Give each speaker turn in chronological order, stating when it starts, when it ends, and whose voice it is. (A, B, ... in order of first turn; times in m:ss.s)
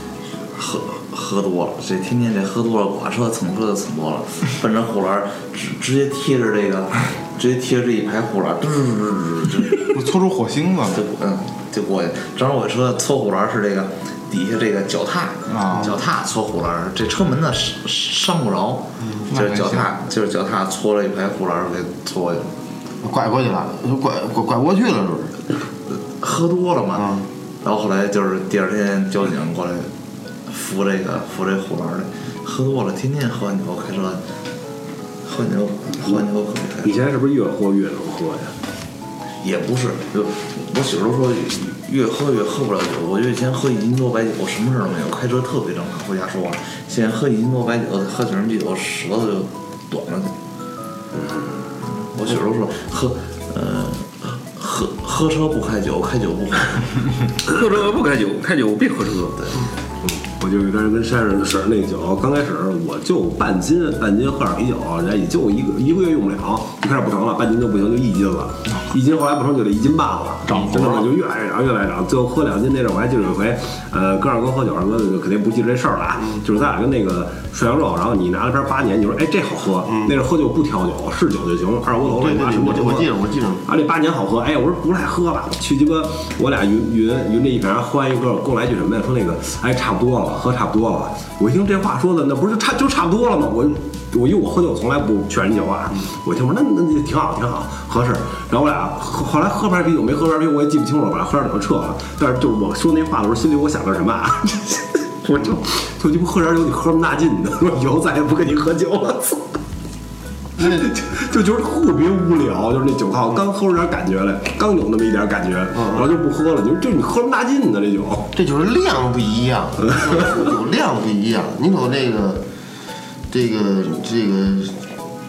0:00.5-0:09.9 A
0:09.9-0:11.0 B
0:10.9-0:22.5 A
0:15.5-0:15.9 B
0:19.3-0:19.9 B
0:23.0-0:25.4 C
0:26.2-0:29.9 A
0:27.0-0:27.2 C
0:30.5-0:34.2 A
0:35.2-0:37.0 A
0:36.8-0:38.5 D
0:39.4-0:50.3 A
0:51.9-0:57.2 A
0:57.4-0:59.4 E
1:00.0-1:23.1 D
1:10.4-1:11.1 B
1:22.0-1:23.6 C
1:23.6-1:49.6 D
1:50.6-1:58.3 D
1:50.6-1:50.8 C
1:55.7-1:56.0 C
1:58.3-2:02.4 C
2:03.3-2:04.8 C